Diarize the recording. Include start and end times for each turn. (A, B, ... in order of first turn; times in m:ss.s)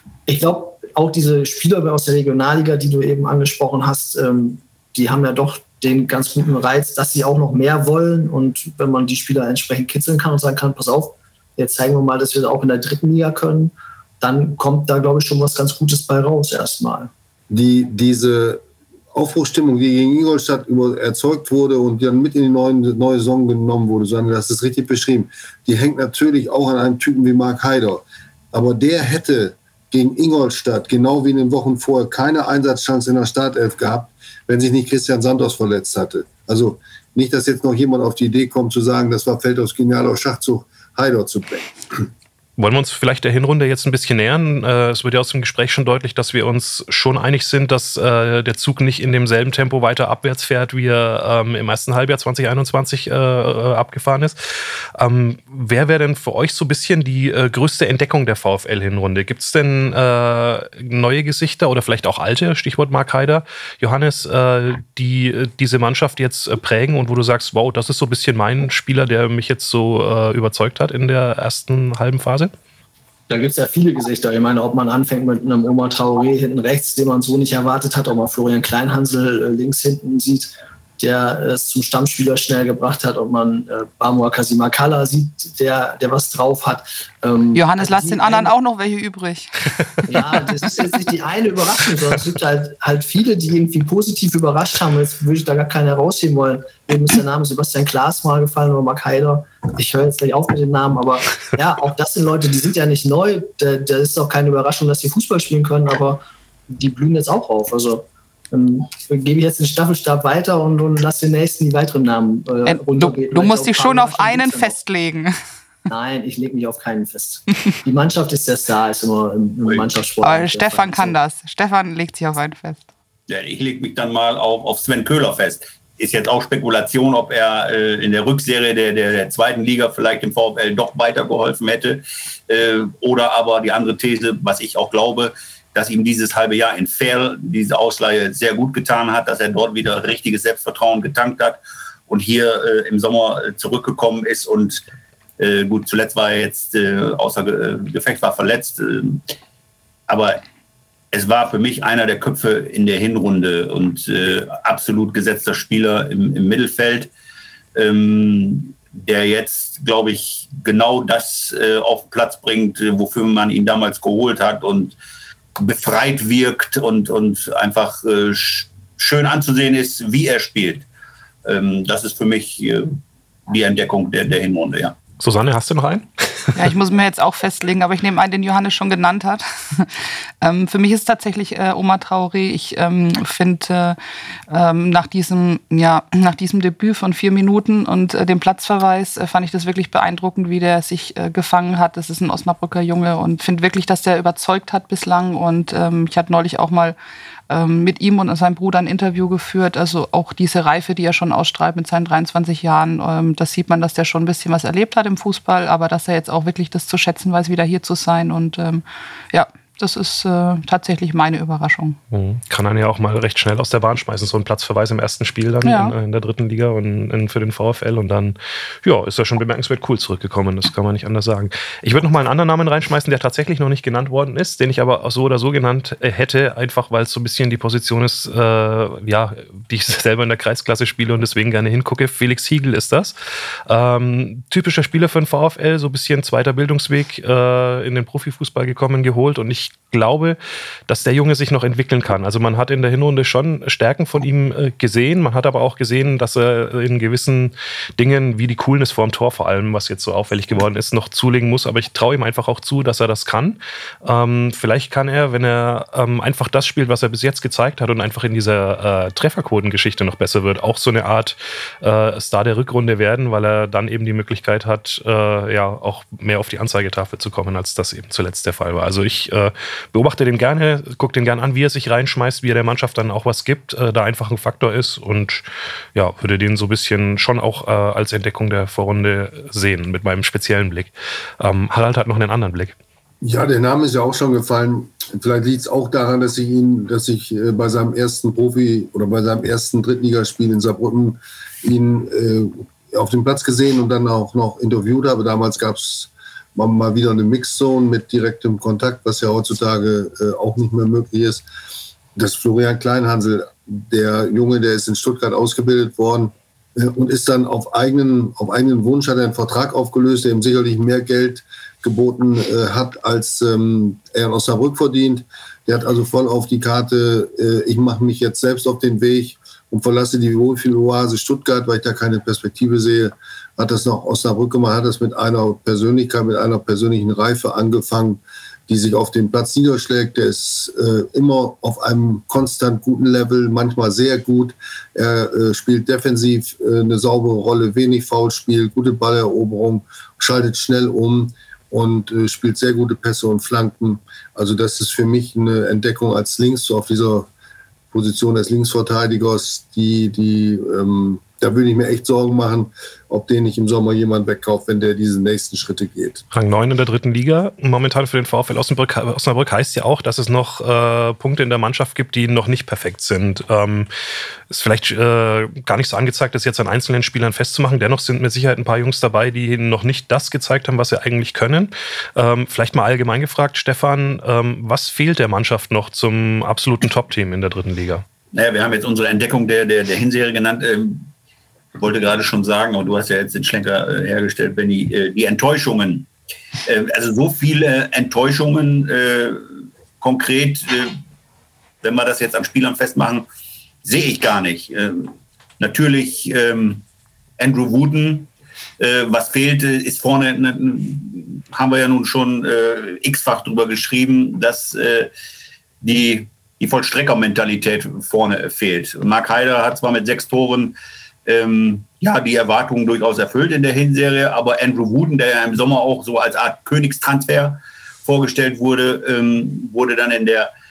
0:00.3-0:17.1 A
0:17.5-0:18.6 B
0:19.1-0:42.1 B
0:42.6-0:54.4 C
0:54.9-1:12.5 C
1:13.3-1:28.5 A
1:27.5-1:30.8 D
1:30.0-1:54.8 A
1:52.6-1:55.4 D
1:55.9-2:01.2 A
2:00.2-2:02.8 D
2:03.3-2:24.8 E
2:25.4-2:29.2 E
2:30.1-2:30.4 E
2:31.1-2:37.1 E
2:37.7-2:45.0 E
2:45.6-2:50.9 E
2:51.4-2:54.9 E
2:55.2-2:56.7 C
2:56.5-3:04.0 D
3:04.5-3:17.0 D
3:17.5-3:32.0 D
3:32.1-3:53.1 C
3:35.6-3:35.9 D
3:53.7-4:42.7 C
4:43.2-5:01.4 B
5:02.1-5:47.3 B
5:47.9-5:56.2 B
5:56.3-6:03.9 C
6:04.5-6:18.0 C
6:18.3-6:21.1 E
6:21.7-6:26.1 E
6:26.6-6:31.0 E
6:31.8-6:33.2 E
6:33.8-6:36.8 E
6:37.4-6:45.1 E
6:45.8-7:00.5 E